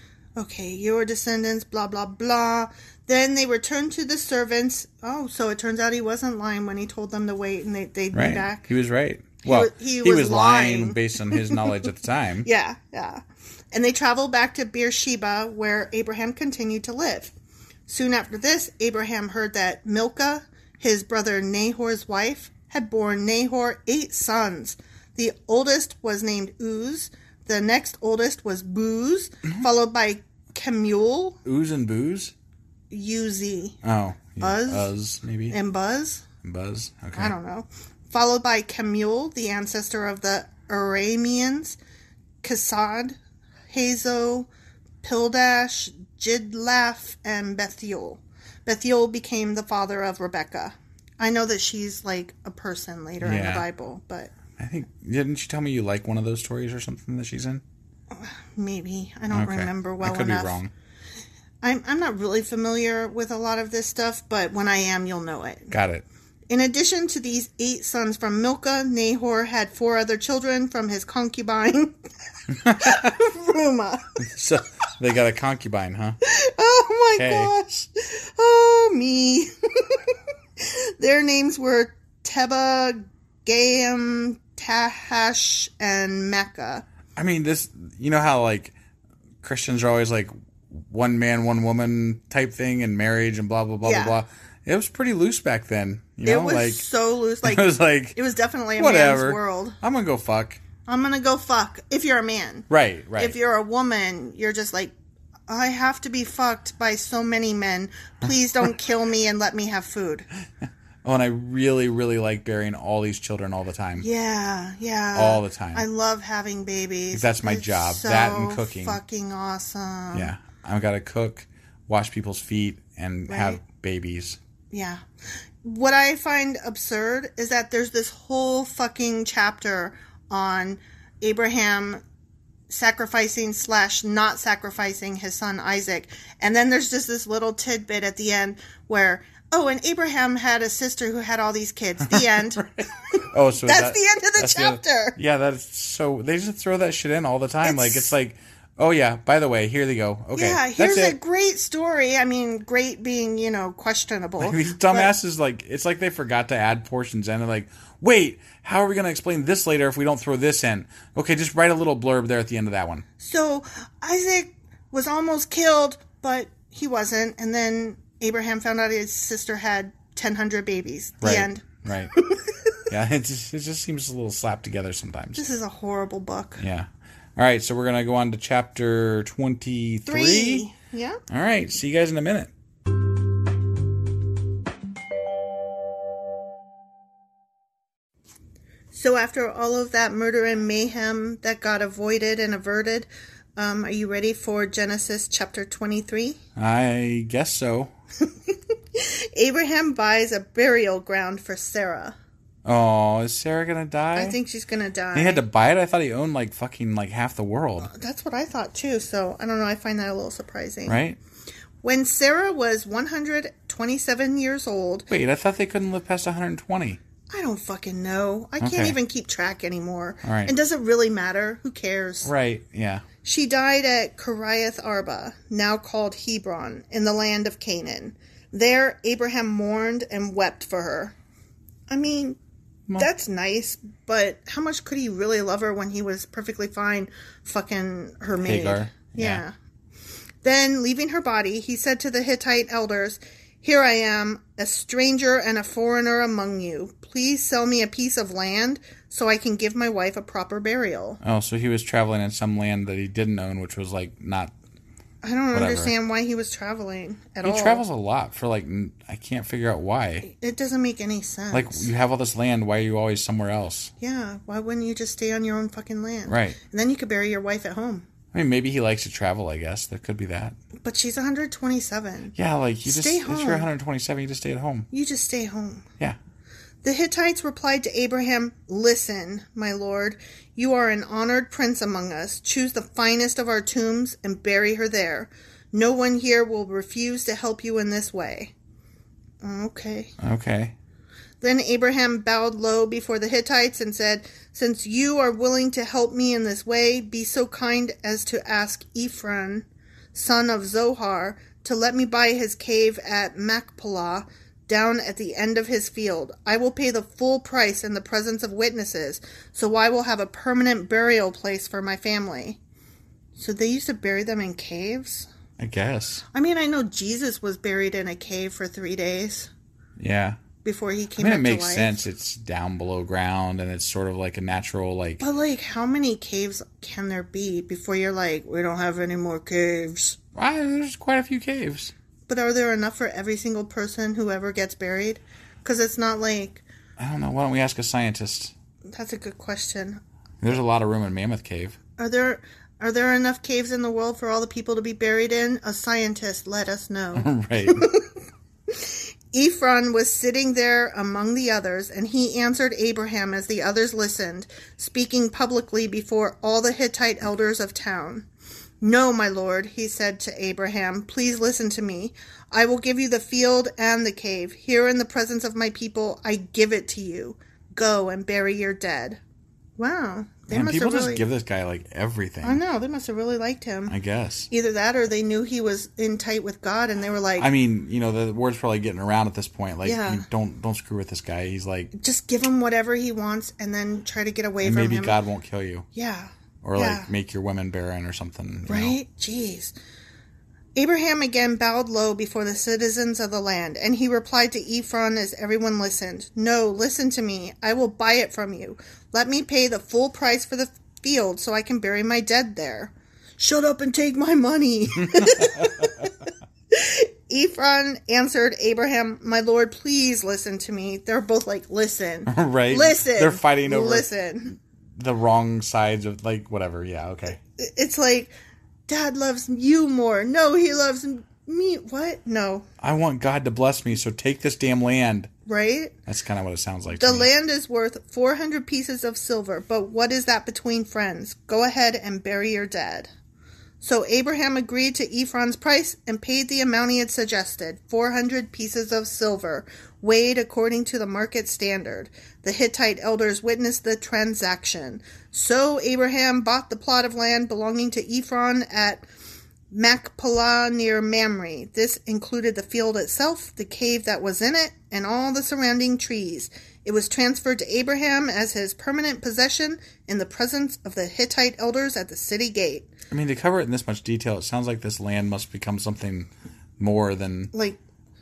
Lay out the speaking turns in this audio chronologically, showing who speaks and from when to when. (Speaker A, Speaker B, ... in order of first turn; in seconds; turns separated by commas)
Speaker A: 0.3-8.7, Speaker B: 8.1-12.5, Speaker A: 9.4-11.6, Speaker A: 12.4-17.3, Speaker A: 17.9-31.4, Speaker B: 31.4-32.3, Speaker A: 32.9-33.8, Speaker B: 33.8-35.5, Speaker A: 34.4-34.9, Speaker A: 35.5-36.2, Speaker B: 36.4-37.3, Speaker A: 37.1-41.8, Speaker A: 42.4-43.2, Speaker A: 43.7-44.5, Speaker A: 45.0-54.3, Speaker B: 53.2-53.6, Speaker B: 54.6-57.6, Speaker A: 58.1-60.6, Speaker B: 59.3-60.7, Speaker A: 61.6-65.7, Speaker B: 65.7-66.0, Speaker A: 66.5-71.9, Speaker B: 72.6-73.1, Speaker A: 72.7-74.1, Speaker B: 74.2-76.2, Speaker A: 76.2-80.0, Speaker B: 77.2-77.5, Speaker A: 80.6-86.8, Speaker B: 87.2-88.7, Speaker B: 89.4-96.8, Speaker A: 93.8-94.2, Speaker A: 96.2-99.8, Speaker B: 97.4-98.2, Speaker B: 98.8-100.6, Speaker A: 100.8-104.9, Speaker B: 102.7-103.3, Speaker A: 105.5-110.2, Speaker B: 111.0-114.1, Speaker A: 114.0-120.3, Speaker B: 115.1-115.8, Speaker B: 117.1-119.0, Speaker B: 120.1-124.4, Speaker A: 123.3-123.6, Speaker A: 124.7-125.0, Speaker A: 125.6-132.0, Speaker A: 132.7-142.6, Speaker B: 142.1-151.2, Speaker A: 143.6-145.2, Speaker A: 147.6-148.1, Speaker A: 150.3-155.1, Speaker B: 154.4-163.0, Speaker A: 163.2-171.6, Speaker B: 171.2-172.1, Speaker B: 172.9-175.4, Speaker A: 175.3-176.6, Speaker B: 176.6-180.7, Speaker A: 180.1-181.2, Speaker B: 181.3-182.5, Speaker A: 188.9-196.4, Speaker B: 196.6-197.9, Speaker A: 198.9-202.2, Speaker B: 202.6-204.4, Speaker A: 204.1-205.4, Speaker B: 205.1-207.9, Speaker A: 207.8-211.0, Speaker B: 210.9-211.2, Speaker A: 211.8-215.1, Speaker B: 215.1-217.0, Speaker A: 217.3-222.3, Speaker B: 218.6-219.0, Speaker B: 220.2-220.5, Speaker B: 222.2-223.0, Speaker A: 223.2-231.1, Speaker A: 231.9-232.4, Speaker A: 233.0-239.5, Speaker B: 238.3-239.4, Speaker A: 240.4-251.2, Speaker B: 251.2-254.5, Speaker A: 255.2-257.8, Speaker B: 255.5-255.9, Speaker B: 257.4-260.3, Speaker A: 260.3-261.9, Speaker B: 261.5-263.9, Speaker A: 264.0-268.1, Speaker B: 266.3-266.6, Speaker B: 268.3-270.6, Speaker A: 270.8-273.7, Speaker B: 272.4-274.9, Speaker A: 274.9-275.8, Speaker A: 276.8-288.5, Speaker A: 289.4-290.1, Speaker B: 290.2-290.7, Speaker A: 291.4-312.6, Speaker A: 313.4-315.3, Speaker B: 315.6-316.2, Speaker A: 316.3-319.5, Speaker B: 320.0-320.4, Speaker A: 320.6-322.0, Speaker B: 321.2-325.2, Speaker A: 325.2-330.2, Speaker B: 330.4-331.9, Speaker A: 332.3-336.6, Speaker B: 337.0-338.5, Speaker A: 338.9-340.0, Speaker B: 340.4-341.8, Speaker A: 342.0-348.0, Speaker B: 347.1-347.9, Speaker A: 348.7-358.3, Speaker A: 358.8-369.2, Speaker A: 369.8-371.2, Speaker B: 370.5-372.6, Speaker A: 372.4-373.9, Speaker B: 373.9-374.5, Speaker A: 374.5-377.5, Speaker B: 377.4-381.9, Speaker A: 379.8-380.2, Speaker A: 381.9-385.2, Speaker B: 384.6-385.9, Speaker A: 385.9-387.1, Speaker B: 386.6-388.9, Speaker A: 388.7-389.7, Speaker A: 390.8-406.1, Speaker B: 405.0-405.9, Speaker A: 406.7-414.6, Speaker B: 412.3-414.1, Speaker B: 415.0-417.4, Speaker A: 417.6-418.3, Speaker A: 418.9-422.6, Speaker B: 422.8-425.3, Speaker A: 425.5-425.9, Speaker B: 426.1-427.3, Speaker A: 426.9-433.1, Speaker A: 433.8-449.0, Speaker A: 449.7-462.9, Speaker B: 463.1-467.5, Speaker A: 467.5-467.8